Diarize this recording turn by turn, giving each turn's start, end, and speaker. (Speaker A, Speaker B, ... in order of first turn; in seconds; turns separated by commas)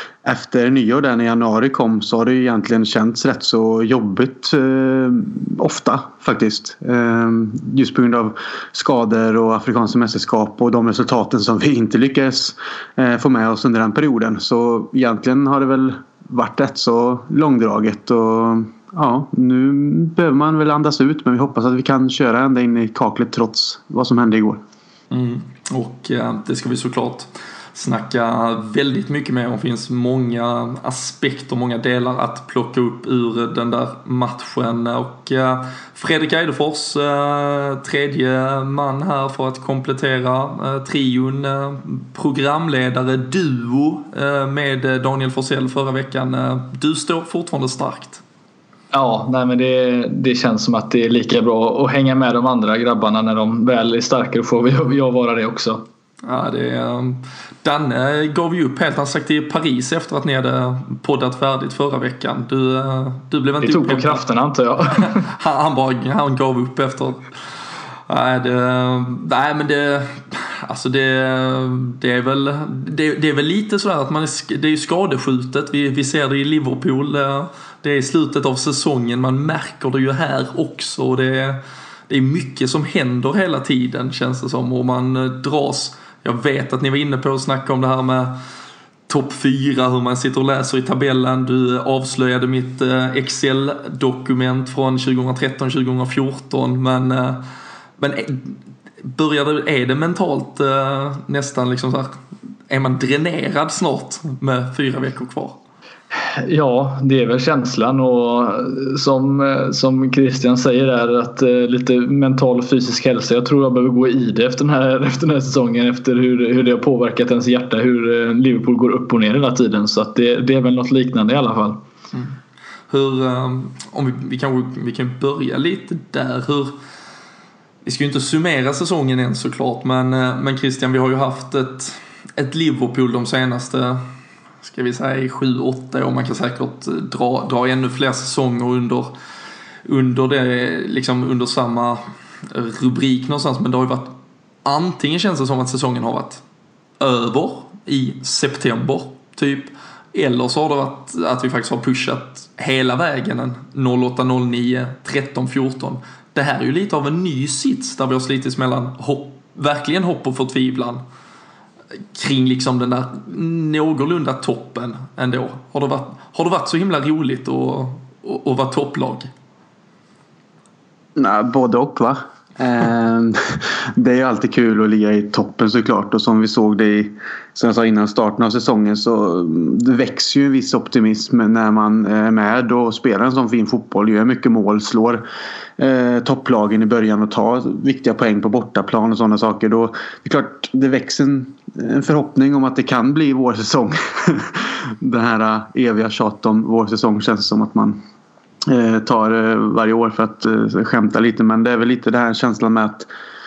Speaker A: 0.2-24.6, Speaker B: 25.1-48.2, Speaker C: 48.9-55.8, Speaker B: 56.2-64.2, Speaker C: 63.6-65.2, Speaker B: 64.9-67.2, Speaker B: 68.1-88.3, Speaker B: 89.1-97.4, Speaker B: 98.0-102.2, Speaker B: 102.7-105.6, Speaker C: 106.2-121.8, Speaker B: 122.9-126.7, Speaker B: 127.8-134.0, Speaker B: 134.6-139.1, Speaker B: 139.8-144.1, Speaker B: 144.6-146.4, Speaker B: 147.0-161.0, Speaker B: 162.1-169.3, Speaker A: 171.2-185.2, Speaker A: 185.8-198.0, Speaker A: 198.7-203.1